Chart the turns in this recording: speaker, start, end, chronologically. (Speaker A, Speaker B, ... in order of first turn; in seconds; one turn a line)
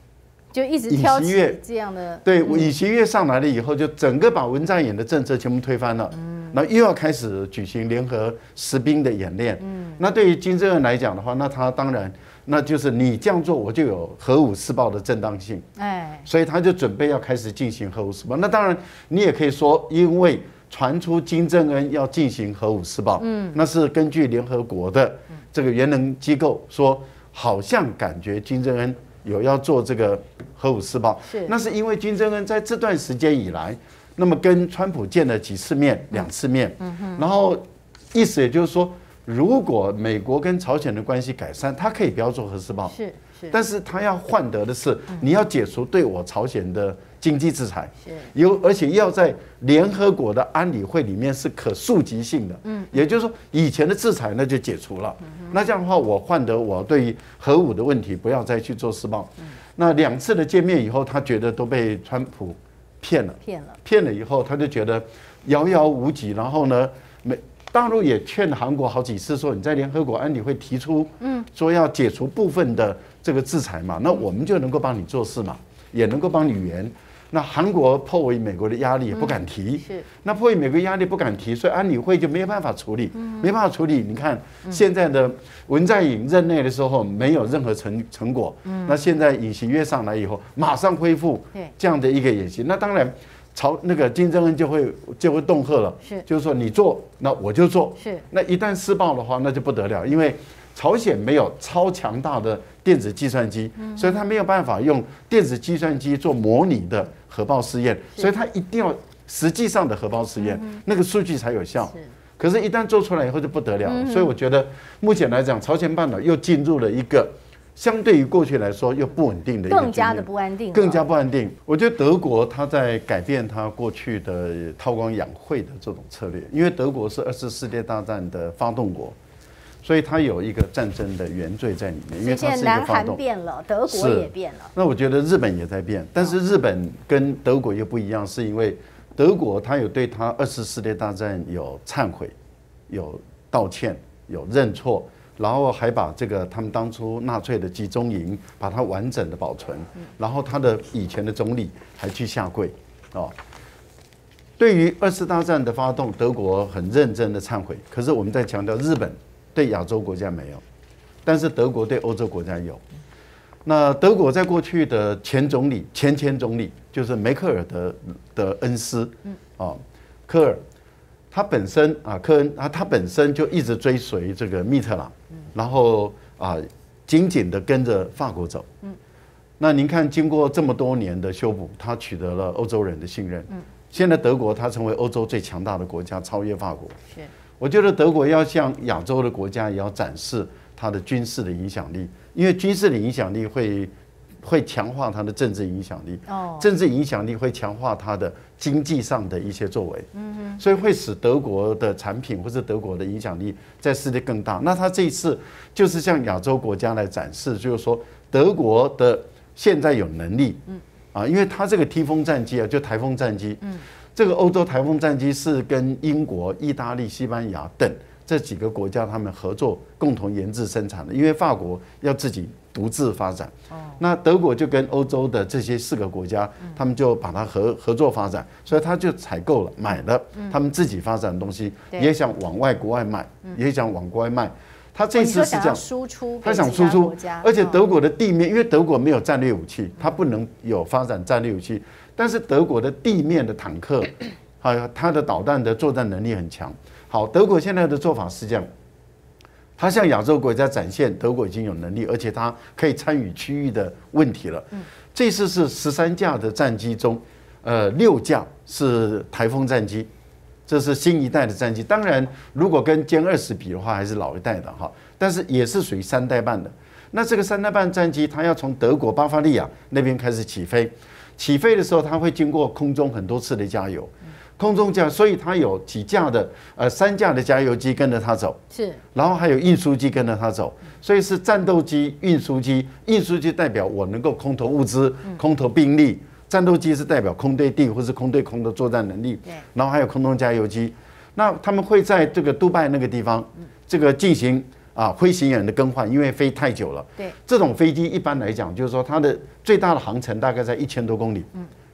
Speaker A: 0.5-2.7
Speaker B: 0.9-1.6
Speaker B: 2.2-15.7
Speaker A: 6.2-6.5
Speaker A: 9.6-10.0
Speaker A: 15.8-16.3
Speaker B: 16.2-43.0
Speaker A: 23.2-23.6
Speaker A: 31.3-31.5
Speaker A: 36.8-37.2
Speaker A: 42.9-43.5
Speaker B: 43.5-129.2
Speaker A: 48.0-48.3
Speaker A: 52.7-52.9
Speaker A: 63.4-63.8
Speaker A: 71.2-71.5
Speaker A: 79.1-80.0
Speaker A: 83.2-83.5
Speaker A: 88.7-88.9
Speaker A: 98.0-98.3
Speaker A: 103.8-104.2
Speaker A: 110.4-110.8
Speaker A: 113.8-114.3
Speaker A: 119.7-121.0
Speaker B: 129.8-133.2
Speaker A: 132.2-134.7
Speaker B: 133.8-142.3
Speaker B: 142.9-153.3
Speaker B: 154.6-160.6
Speaker B: 161.2-162.8
Speaker B: 163.6-170.6
Speaker B: 171.3-178.7
Speaker B: 179.6-187.0
Speaker B: 187.6-193.9
Speaker B: 194.4-210.6
Speaker A: 196.3-196.7
Speaker A: 200.1-200.6
Speaker B: 211.1-235.8
Speaker A: 223.7-224.0
Speaker A: 235.1-237.8
Speaker B: 236.4-248.7
Speaker B: 249.8-260.1
Speaker B: 260.7-278.6
Speaker A: 278.7-279.0
Speaker B: 279.1-301.5